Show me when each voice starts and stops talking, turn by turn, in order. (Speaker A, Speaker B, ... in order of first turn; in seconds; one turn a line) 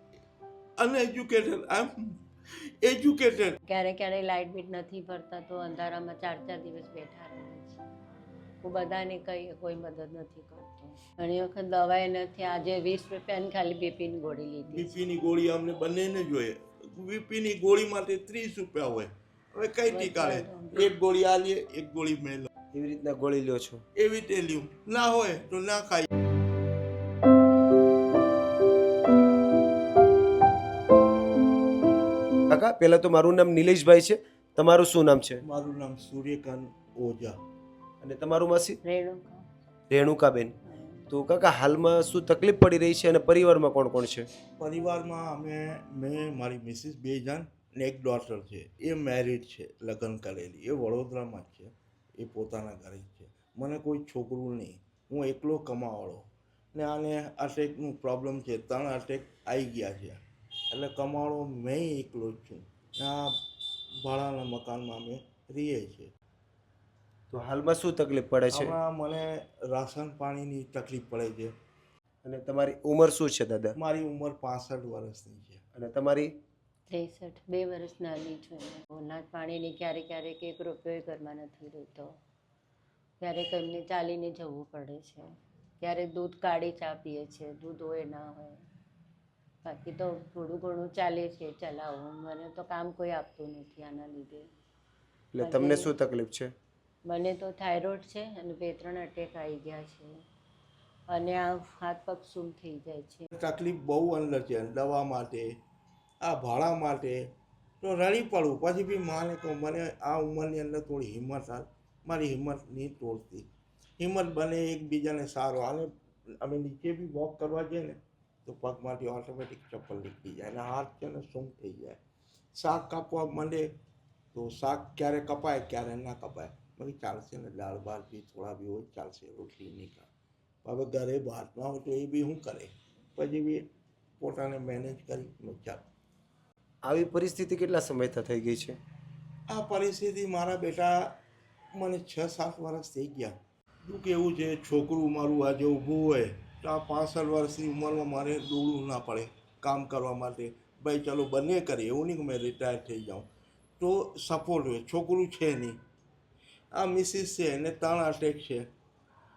Speaker A: 0.8-2.1
Speaker A: 2.8-3.6
Speaker B: 3.7-7.8
Speaker B: 8.6-14.9
Speaker A: 14.7-22.5
Speaker B: 19.9-20.9
Speaker C: 22.7-23.8
Speaker A: 23.9-26.1
Speaker C: 32.5-35.4
Speaker A: 35.4-37.4
Speaker C: 38.0-38.8
Speaker B: 38.8-39.4
Speaker C: 39.9-40.5
Speaker B: 40.6-41.1
Speaker C: 41.1-44.3
Speaker A: 44.6-60.2
Speaker A: 60.7-63.3
Speaker A: 64.0-66.1
Speaker C: 67.3-68.8
Speaker A: 68.5-71.5
Speaker C: 72.2-73.8
Speaker A: 73.8-75.6
Speaker C: 75.7-76.3
Speaker B: 76.9-82.1
Speaker B: 83.2-85.3
Speaker B: 85.8-88.6
Speaker B: 89.6-94.5
Speaker C: 95.3-96.5
Speaker B: 95.4-95.9
Speaker B: 97.0-100.1
Speaker B: 101.1-103.3
Speaker A: 103.3-105.5
Speaker A: 106.2-107.2
Speaker A: 107.8-113.5
Speaker A: 114.0-122.0
Speaker A: 122.5-123.7
Speaker A: 124.3-130.1
Speaker A: 130.6-133.7
Speaker A: 134.2-135.8
Speaker C: 136.8-138.8
Speaker A: 139.5-141.1
Speaker A: 141.7-153.2
Speaker A: 153.8-155.8
Speaker A: 156.7-158.7